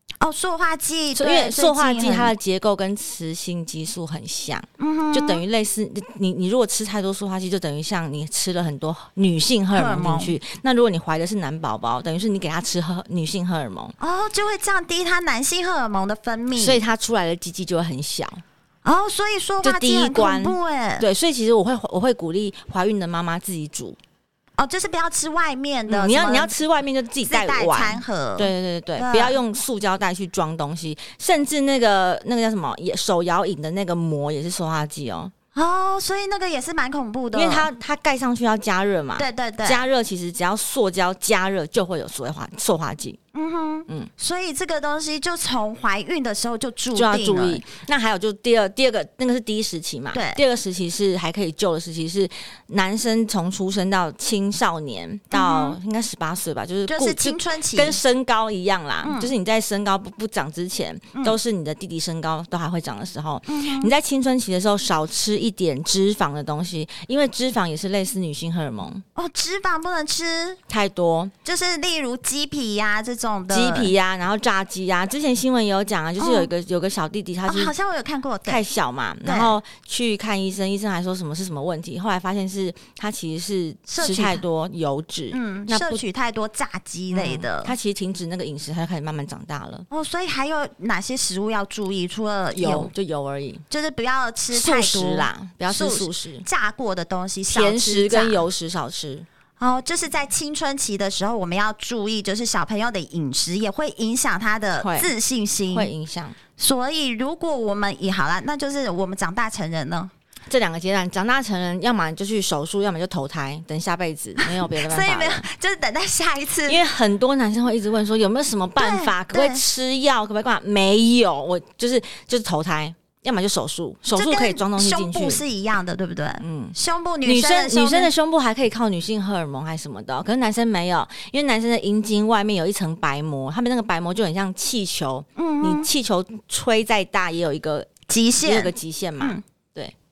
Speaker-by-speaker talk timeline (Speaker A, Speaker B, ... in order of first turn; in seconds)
Speaker A: 0.2-2.3, 4.8-5.4, 9.7-10.3, 14.0-16.8, 18.8-21.0, 24.6-26.5, 27.2-29.4, 35.5-37.7, 39.2-39.8, 43.3-47.6, 50.1-50.4, 55.3-55.8, 56.9-58.0, 59.0-59.3, 63.5-63.9, 69.1-70.6, 71.4-73.9, 76.2-76.5, 77.5-78.6, 79.2-79.5, 83.9-84.4, 85.3-87.7, 89.9-92.9, 93.7-98.4, 99.6-105.9, 106.6-110.1, 114.4-116.8, 118.8-119.6, 124.1-128.1, 135.4-135.9, 138.1-139.4
Speaker B: 1.1-13.9, 16.6-18.4, 19.6-24.0, 25.9-35.3, 37.3-43.2, 46.9-69.0, 70.7-71.3, 73.5-77.7, 78.5-86.0, 87.1-89.8, 92.5-93.6, 94.5-96.4, 97.5-99.2, 104.8-105.1, 105.7-106.4, 110.5-115.5, 116.7-125.4, 126.4-139.9